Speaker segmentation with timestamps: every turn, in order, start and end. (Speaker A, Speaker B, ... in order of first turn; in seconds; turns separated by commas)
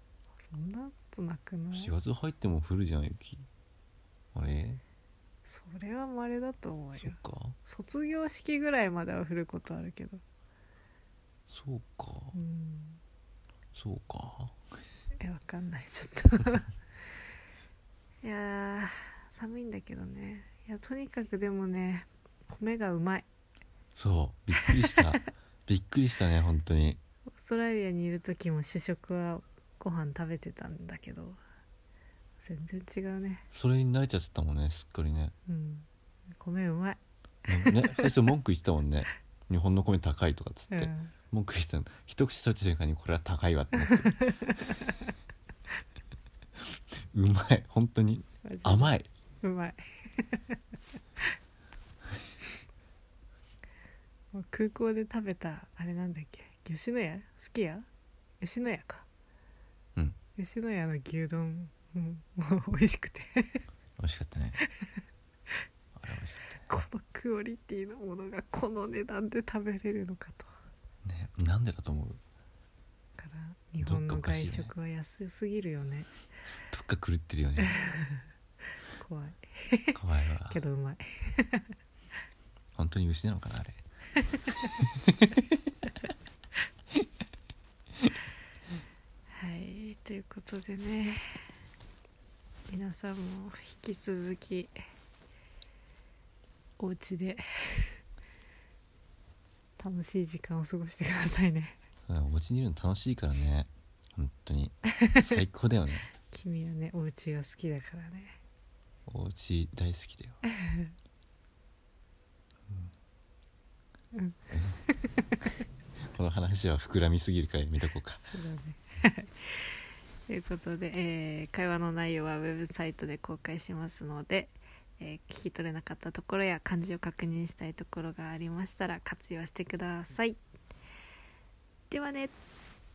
Speaker A: 0.4-1.9, Speaker B: 1.7-3.5, Speaker B: 4.3-4.8, Speaker A: 5.4-10.2, Speaker B: 7.0-7.5, Speaker B: 11.5-12.3, Speaker A: 12.3-13.0, Speaker B: 13.7-14.6, Speaker A: 15.2-16.7, Speaker A: 18.2-23.3, Speaker B: 23.9-27.0, Speaker A: 24.5-25.0, Speaker A: 27.3-31.4, Speaker A: 32.4-33.5, Speaker B: 33.5-35.3, Speaker A: 35.5-38.1, Speaker B: 37.5-44.4, Speaker A: 40.7-41.1, Speaker A: 44.0-44.9, Speaker B: 47.1-49.1, Speaker A: 48.4-50.6, Speaker A: 54.3-57.9, Speaker A: 58.4-59.1, Speaker A: 60.4-63.6, Speaker B: 64.0-64.6, Speaker A: 64.6-64.9, Speaker B: 65.9-66.8, Speaker A: 66.7-70.5, Speaker B: 71.0-72.2, Speaker A: 73.2-76.1, Speaker B: 73.8-74.7, Speaker B: 76.7-77.8, Speaker A: 77.6-78.2, Speaker A: 78.9-80.0, Speaker B: 79.9-80.6, Speaker A: 80.5-81.7, Speaker B: 82.8-83.8, Speaker B: 84.8-85.4, Speaker A: 89.3-91.2, Speaker A: 92.7-94.7, Speaker A: 96.8-98.0, Speaker A: 99.8-101.8, Speaker B: 102.1-106.1, Speaker A: 104.9-105.2, Speaker A: 106.3-108.4, Speaker B: 109.1-110.4, Speaker A: 110.5-110.9, Speaker A: 114.1-115.2, Speaker B: 116.0-118.3, Speaker A: 118.3-130.4, Speaker A: 131.9-132.3